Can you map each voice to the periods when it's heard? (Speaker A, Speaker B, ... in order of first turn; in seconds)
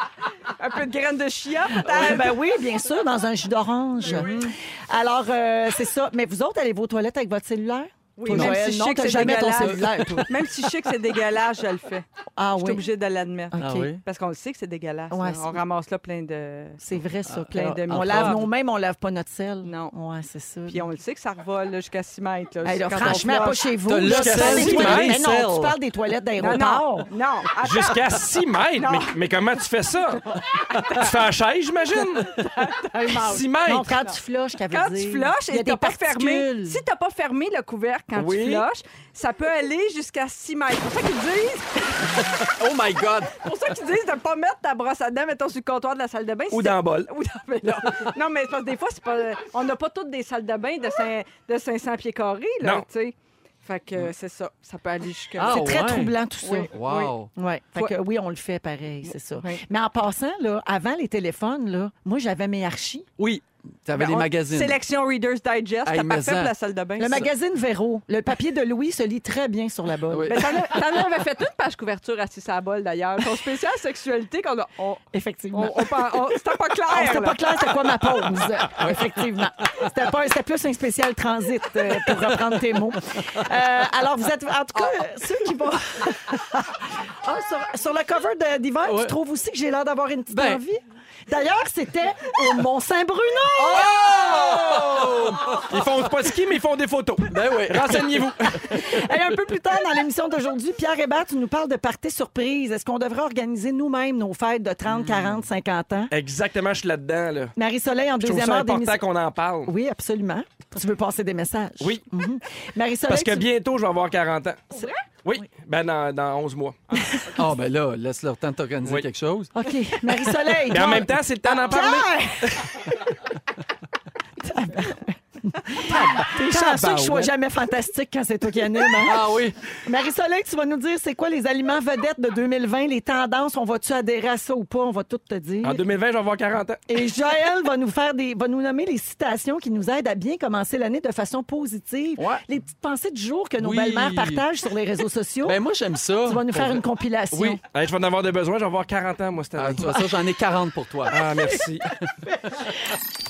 Speaker A: 0.5-2.4, 8.2-16.8, 17.5-18.4, 19.6-19.9, 20.7-23.6, 26.4-28.0, 28.8-29.1, 30.5-31.1, 32.4-33.5, 34.7-42.2, 43.3-55.7, 56.4-57.1, 63.9-67.3, 70.3-77.7, 114.7-115.0
Speaker B: 1.8-10.3, 12.4-12.8, 13.5-13.9, 15.1-15.6, 16.8-20.8, 22.6-27.1, 33.6-36.8, 55.4-56.7, 57.3-63.1, 67.0-70.5, 75.1-76.4, 76.9-95.6, 98.6-106.1, 107.5-109.0, 109.6-113.5, 117.0-117.3, 119.5-122.9, 124.4-135.8, 136.9-145.6, 146.2-147.6
Speaker C: 4.1-4.5, 8.3-8.6, 9.1-10.3, 13.6-14.0, 17.3-18.4, 23.9-25.7, 42.4-43.4, 47.6-48.1, 55.4-56.1, 56.7-57.3, 63.2-64.8, 65.8-66.5, 70.1-70.6, 78.8-79.1, 81.9-82.2, 88.9-89.1, 90.3-90.6, 93.6-95.8, 97.3-99.0, 104.9-105.4, 117.3-119.5, 129.0-129.6, 142.2-142.4, 143.6-144.4, 145.4-147.6, 149.6-151.2
Speaker D: 24.0-25.2, 27.6-30.3, 30.9-32.4, 33.1-33.9, 38.1-38.6, 46.5-47.1, 94.0-98.8, 106.1-107.5, 108.2-109.7, 113.1-117.2, 120.7-123.0, 126.6-127.2, 135.6-136.8, 147.7-150.1, 151.1-151.9